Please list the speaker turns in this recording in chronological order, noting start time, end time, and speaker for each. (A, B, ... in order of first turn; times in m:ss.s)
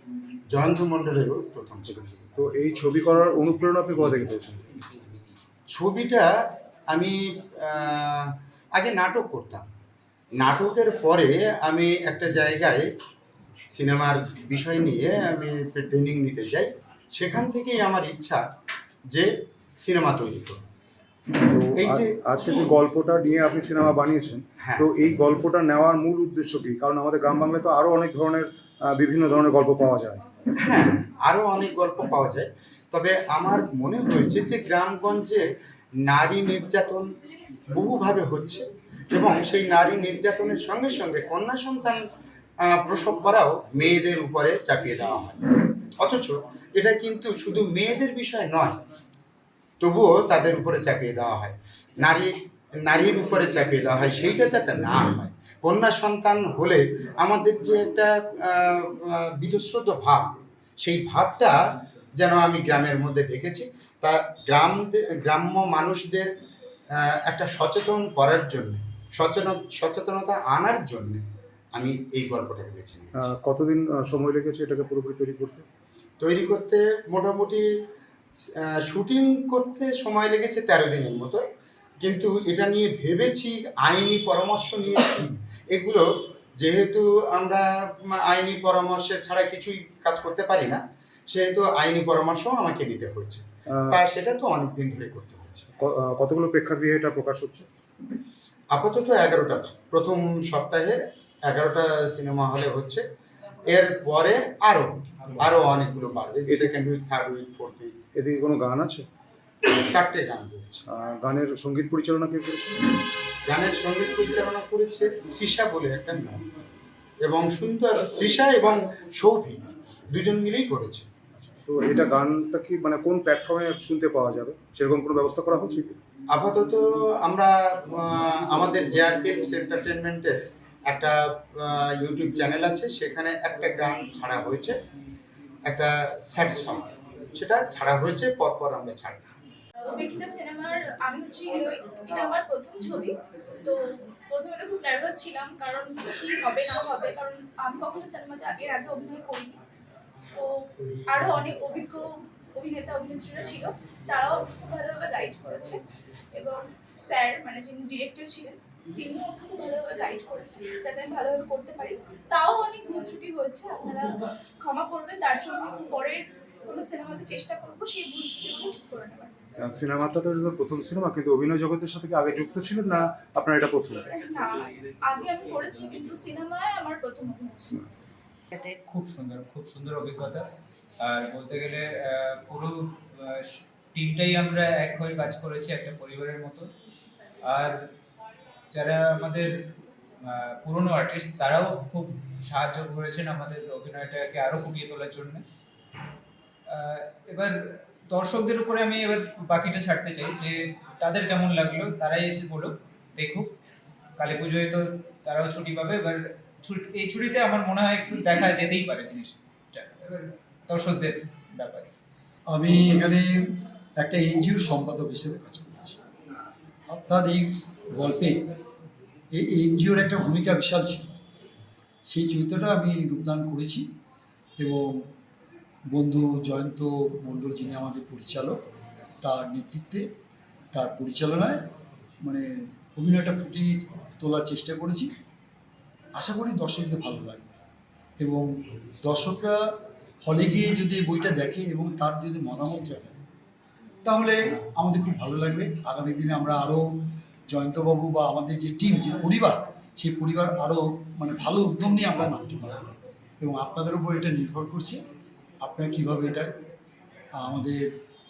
0:00.5-0:02.0 A
0:01.9-0:04.7 B
0:05.7-0:06.3 A
0:06.9-0:09.6 A
0:10.4-0:12.9 A
0:13.7-0:18.4 A
0:19.1-0:20.6 A
0:21.4-0:30.2 B
0:21.7-0:22.1 A
0:24.6-0:24.9 A
0:30.6-0:35.4 A
0:36.0-0:37.1 A
0:37.6-0:42.0 A
0:42.6-0:45.4 A
0:46.0-0:48.8 A
0:49.8-1:00.3 A
1:00.8-1:06.3 A
1:07.0-1:11.2 A
1:11.7-1:13.2 A
1:13.2-1:15.6 B
1:16.2-1:17.6 A
1:18.6-1:21.4 A
1:22.0-1:26.0 A
1:26.6-1:35.7 A
1:35.8-1:37.6 B
1:38.7-1:43.0 A
1:43.6-1:48.0 A
1:46.5-1:46.7 B
1:48.1-1:49.0 B
1:49.7-1:50.8 A
1:50.9-1:52.8 B
1:53.4-1:56.4 A
1:57.2-2:01.1 A
2:01.4-2:06.0 B
2:06.3-2:14.8 A
2:15.7-2:19.2 A
2:19.8-2:29.6 C
2:30.3-2:35.8 C
2:36.3-2:49.3 C
2:49.6-2:54.1 B
2:54.1-2:57.8 C
2:58.8-3:00.4 D
3:01.0-3:06.7 D
3:07.4-3:07.8 D
3:08.7-3:09.7 D
3:10.2-3:15.4 D
3:16.7-3:23.5 D
3:24.2-3:31.9 D
3:32.5-3:36.0 E
3:36.9-3:38.4 E
3:39.3-3:41.1 E
3:42.0-3:43.8 E
3:44.6-3:45.1 E
3:45.9-3:48.6 E
3:49.2-3:50.1 E
3:50.7-3:51.6 E
3:52.2-3:55.1 E
3:56.2-3:57.6 E
3:58.2-3:59.6 E
4:00.2-4:03.2 E
4:04.0-4:06.8 E
4:07.5-4:15.0 E
4:15.6-4:16.5 E
4:17.4-4:17.9 E